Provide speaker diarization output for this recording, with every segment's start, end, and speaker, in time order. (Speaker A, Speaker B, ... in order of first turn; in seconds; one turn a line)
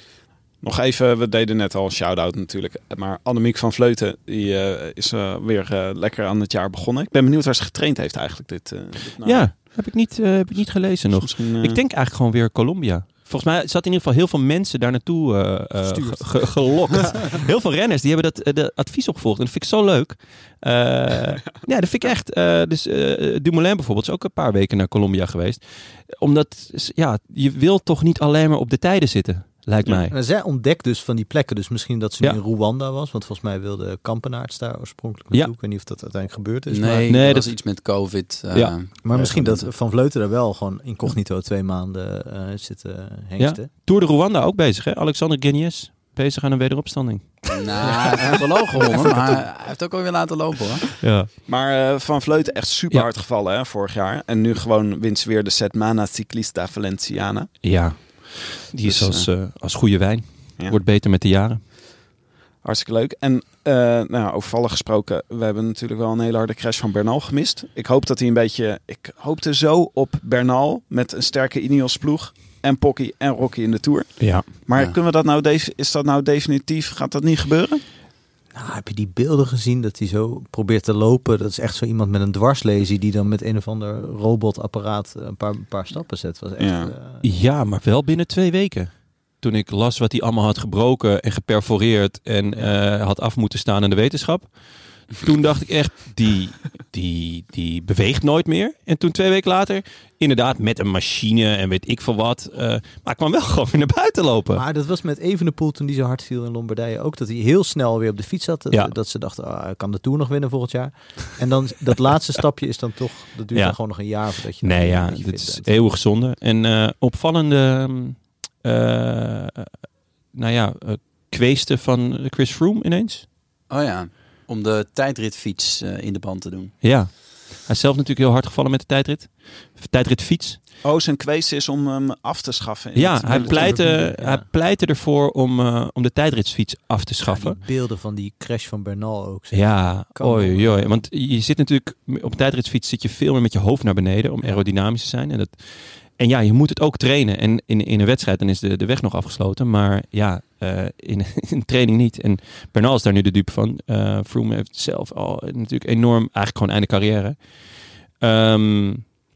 Speaker A: 0.6-9.5
Speaker B: 9.2-30.1
Speaker A: 11.1-11.8
Speaker C: 15.8-17.4
Speaker C: 30.1-37.1
Speaker D: 36.7-39.7
Speaker B: 37.0-37.5
Speaker C: 39.0-43.7
Speaker B: 43.4-47.4
Speaker D: 47.5-50.9
Speaker B: 51.0-51.3
Speaker A: 51.5-57.5
Speaker B: 57.6-61.6
Speaker D: 58.9-59.2
Speaker A: 62.6-77.8
Speaker B: 74.2-74.4
Speaker C: 78.5-87.2
Speaker A: 86.6-86.9
Speaker B: 87.2-88.9
Speaker B: 89.4-94.5
Speaker B: 95.1-104.6
Speaker C: 104.5-115.7
Speaker B: 113.5-114.0
Speaker B: 114.6-119.7
Speaker B: 120.3-123.2
Speaker D: 123.7-126.7
Speaker B: 126.8-130.6
Speaker A: 130.8-133.8
Speaker B: 132.9-137.6
Speaker C: 133.3-134.4
Speaker C: 137.2-140.9
Speaker B: 139.5-145.6
Speaker B: 146.2-157.3
Speaker B: 158.2-159.0